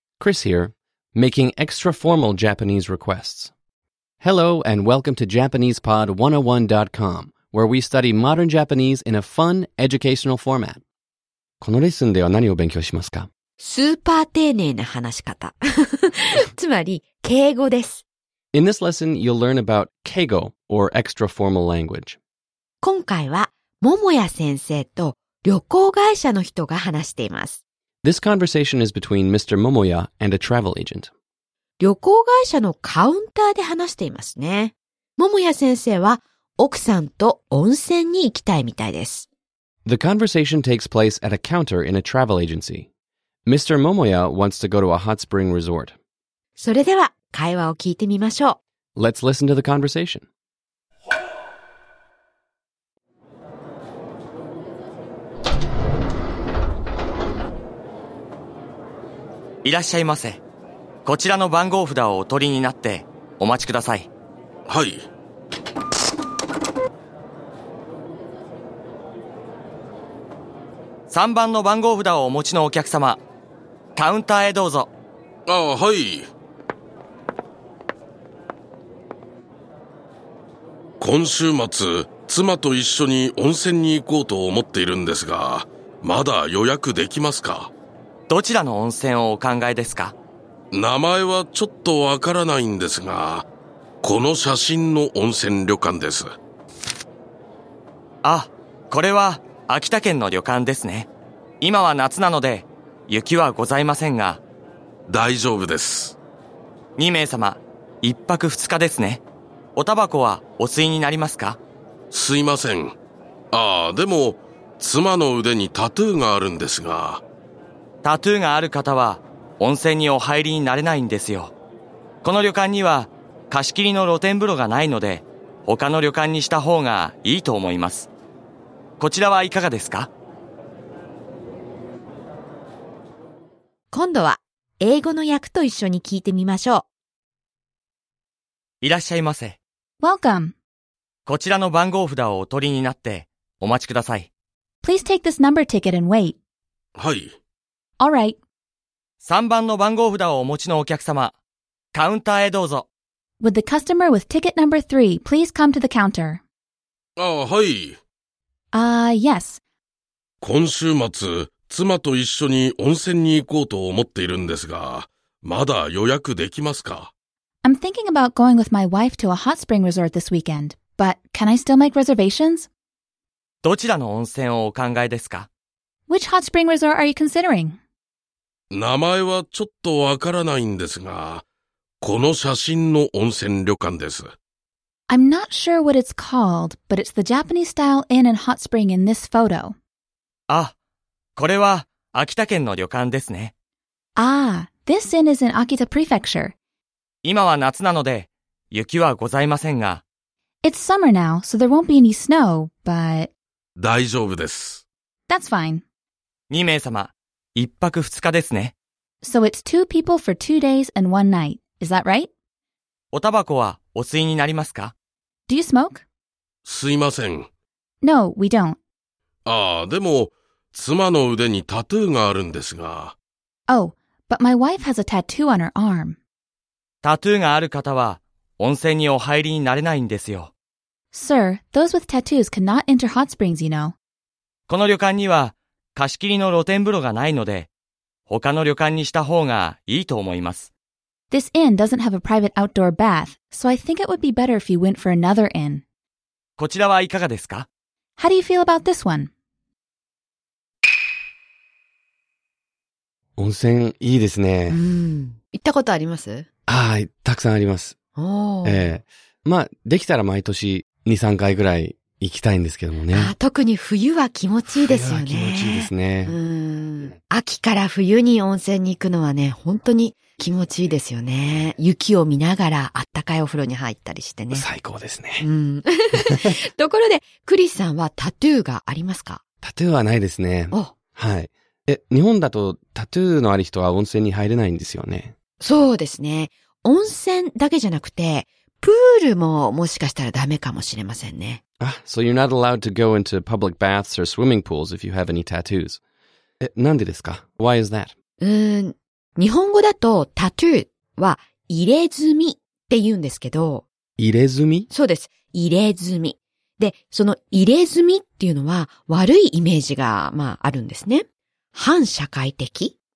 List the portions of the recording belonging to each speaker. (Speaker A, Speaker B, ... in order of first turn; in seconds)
Speaker A: 0.2-3.5, 4.2-10.8, 11.6-13.3, 18.5-22.2, 28.0-31.1, 39.9-42.9, 43.5-46.0, 49.0-50.3, 253.4-254.8, 256.7-258.0, 258.6-263.3, 264.7-266.4, 274.5-275.5, 276.3-276.5, 279.6-285.3, 291.8-296.0, 296.6-298.1, 304.2-304.9
Speaker B: 13.6-18.0, 22.8-27.6, 31.8-39.3, 46.6-48.6, 133.9-136.9, 254.7-256.5, 258.2-258.9, 263.1-274.7, 275.4-279.4, 285.6-291.6, 298.4-303.9, 304.9-312.9
Speaker C: 59.6-60.4, 61.0-64.1, 71.1-73.2, 74.0-74.9, 88.3-90.2, 98.2-101.1, 101.6-104.4, 107.0-109.2, 109.8-111.6, 118.0-121.5, 122.2-128.1, 129.0-130.1, 138.8-139.6, 141.3-144.3, 149.2-151.3, 151.9-152.9, 173.6-175.5, 190.5-190.7, 191.4-193.5, 197.2-200.0, 206.5-208.7, 213.1-214.9, 227.0-230.5, 234.7-237.7, 238.3-240.7, 246.6-247.7
Speaker D: 64.7-65.1, 75.5-76.3, 81.0-87.7, 90.7-93.5, 94.0-96.3, 105.1-106.2, 112.1-113.0, 113.5-117.2, 147.0-147.3, 157.2-158.0, 160.4-167.1, 178.7-181.4, 182.0-184.3, 203.8-204.8, 216.7-217.5, 219.5-223.2
Speaker E: 140.0-140.6, 144.8-146.4, 148.0-148.4, 153.4-156.4, 158.7-159.6, 167.6-172.7, 176.1-177.8, 185.1-189.8, 194.2-196.5, 200.6-203.3, 205.3-205.8, 209.2-212.3, 215.5-216.0, 218.0-218.8, 223.7-226.2, 231.1-233.9, 241.3-245.8, 248.2-249.3